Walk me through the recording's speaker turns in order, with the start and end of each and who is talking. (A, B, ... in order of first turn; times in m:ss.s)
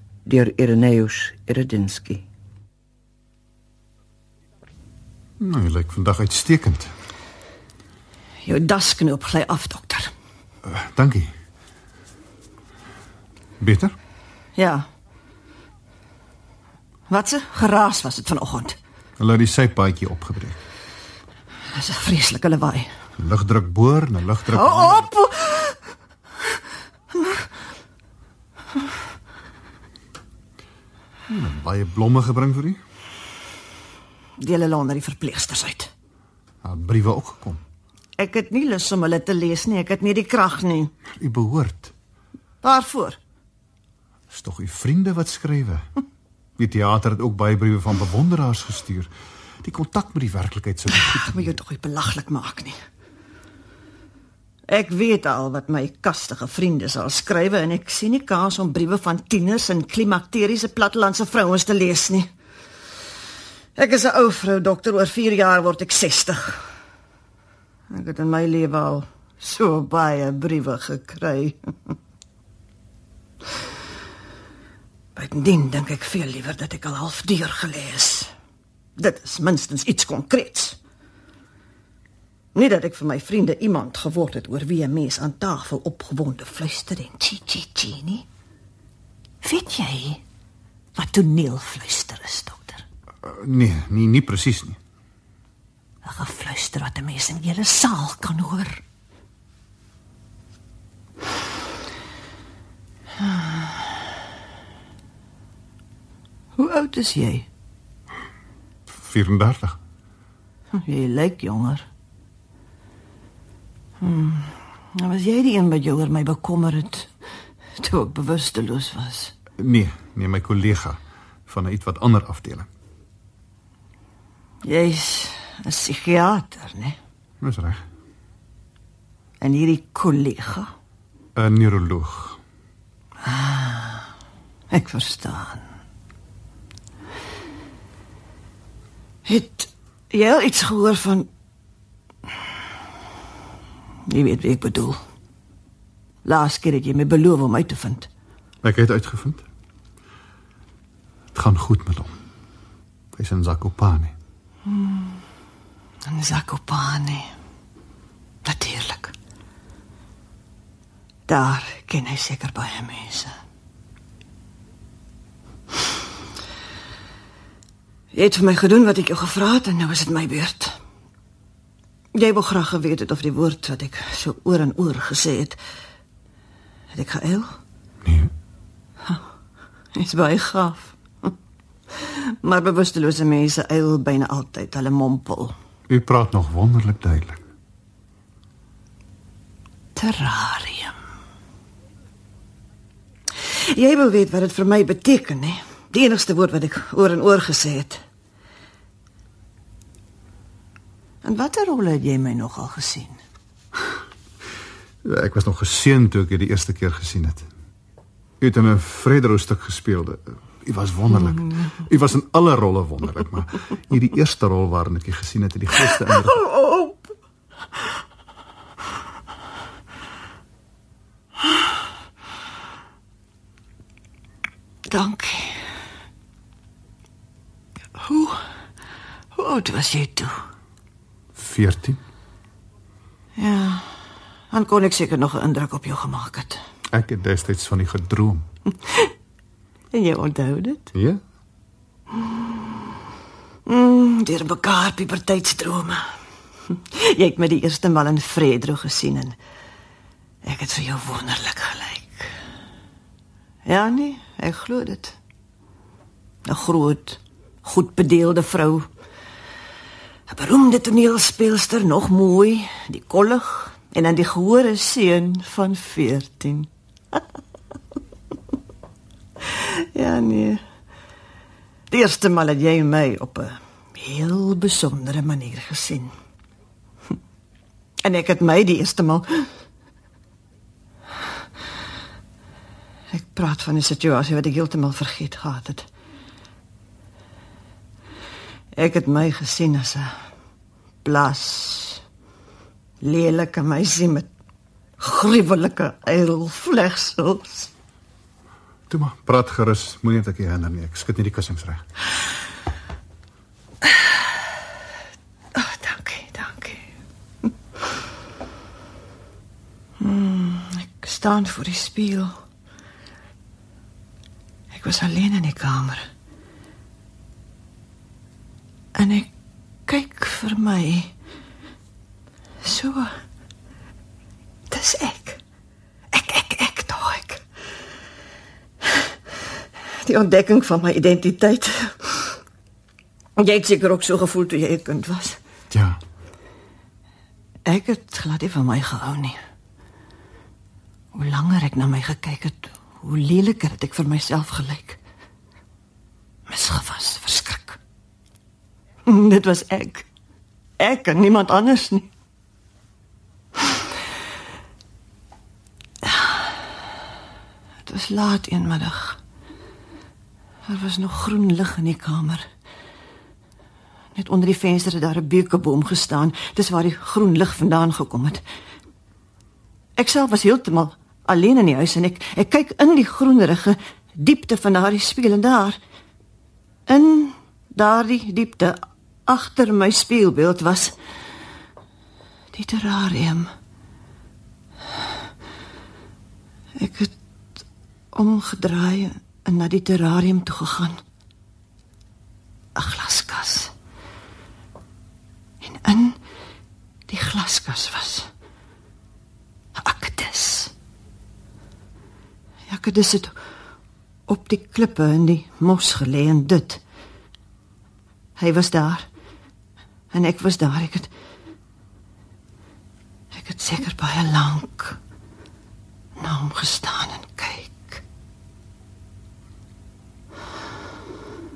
0:00.2-0:02.2 A
0:05.4-0:06.9 B
0:08.5-0:10.1 C
0:10.6-0:11.3 B
0:13.6-0:14.0 B
0:14.6-0:14.9 C
0:17.1-0:18.8 C
0:19.2-0:20.6 B
0:21.7-0:22.9 C
0:23.2-0:25.1 B
0:24.5-0:25.8 C
0:27.1-0:27.5 C
0:31.3-0:32.8 B
0:34.4-0:35.9 C
0:36.6-0:37.6 B
0:38.2-0:40.9 C
0:41.1-0:41.9 B
0:42.6-0:43.2 C
0:44.3-0:45.9 B
0:46.6-0:51.6 B
0:51.2-0:52.8 C
0:54.7-1:02.3 C
1:03.8-1:06.7 C
1:07.9-1:12.0 C
1:15.2-1:18.3 C
1:19.0-1:20.8 C
1:22.6-1:28.3 C
1:29.4-1:30.2 C
1:31.0-1:32.8 C
1:33.2-1:34.8 B
1:36.0-1:38.8 C
1:43.2-1:43.9 C
1:46.6-1:47.5 C
1:48.9-1:49.8 B
1:50.7-1:51.9 C
1:54.0-1:57.1 C
1:57.8-1:59.3 C
1:59.6-2:02.7 B
2:04.6-2:07.0 C
2:07.4-2:07.8 B
2:09.4-2:10.7 C
2:11.4-2:12.4 B
2:13.2-2:14.1 C
2:14.7-2:15.6 C
2:19.3-2:21.3 C
2:24.1-2:25.0 C
2:26.2-2:28.1 C
2:28.6-2:29.4 B
2:31.3-2:32.2 B
2:33.1-2:34.1 B
2:34.7-2:35.2 C
2:36.0-2:37.3 C
2:38.4-2:39.1 C
2:41.3-2:43.4 C
2:48.1-2:50.8 C
2:52.1-2:55.6 C
2:56.9-2:57.6 C
2:58.0-2:58.3 B
3:00.0-3:01.3 C
3:02.0-3:05.6 C
3:05.9-3:07.4 B
3:10.0-3:11.0 C
3:13.4-3:18.0 C
3:21.2-3:23.2 C
3:25.0-3:27.5 B
3:28.4-3:36.4 B
3:36.2-3:37.0 C
3:44.9-3:45.6 C
3:48.0-3:48.4 C
3:49.4-3:50.4 C
3:51.4-3:52.0 B
3:53.4-3:53.9 C
3:54.5-3:56.6 C
3:56.9-3:58.5 B
3:59.9-4:00.9 C
4:00.9-4:01.2 B
4:03.7-4:06.1 C
4:06.7-4:09.4 C
4:10.4-4:12.4 C
4:13.7-4:15.2 C
4:16.5-4:18.9 C
4:20.3-4:27.2 C
4:29.5-4:30.6 C
4:31.9-4:36.1 C
4:38.0-4:39.5 C
4:43.1-4:45.9 C
4:48.8-4:50.1 C
4:51.0-4:52.0 C
4:53.0-4:54.3 C
4:55.0-4:57.7 C
4:58.9-5:01.9 B
5:05.6-5:06.8 C
5:10.0-5:12.4 C
5:14.7-5:16.1 C
5:19.0-5:19.3 C
5:19.9-5:21.1 C
5:22.6-5:23.2 C
5:24.7-5:25.4 C
5:26.1-5:27.4 C
5:30.0-5:32.4 C
5:33.4-5:35.4 C
5:35.7-5:36.0 B
5:37.7-5:39.4 C
5:41.1-5:45.0 C
5:46.5-5:47.8 C
5:49.1-5:50.1 C
5:50.8-5:52.1 C
5:56.0-5:56.6 C
5:57.8-5:59.2 C
6:00.7-6:02.5 C
6:04.2-6:08.4 C
6:10.0-6:15.8 C
6:16.9-6:21.0 C
6:22.5-6:23.5 C
6:26.8-6:27.1 C
6:28.1-6:31.0 C
6:32.8-6:33.7 C
6:35.6-6:36.2 C
6:37.1-6:38.3 C
6:39.8-6:40.7 C
6:42.7-6:43.4 C
6:44.3-6:46.8 C
6:48.4-6:49.1 C
6:50.1-6:51.1 C
6:53.3-6:55.0 C
6:56.2-6:58.0 C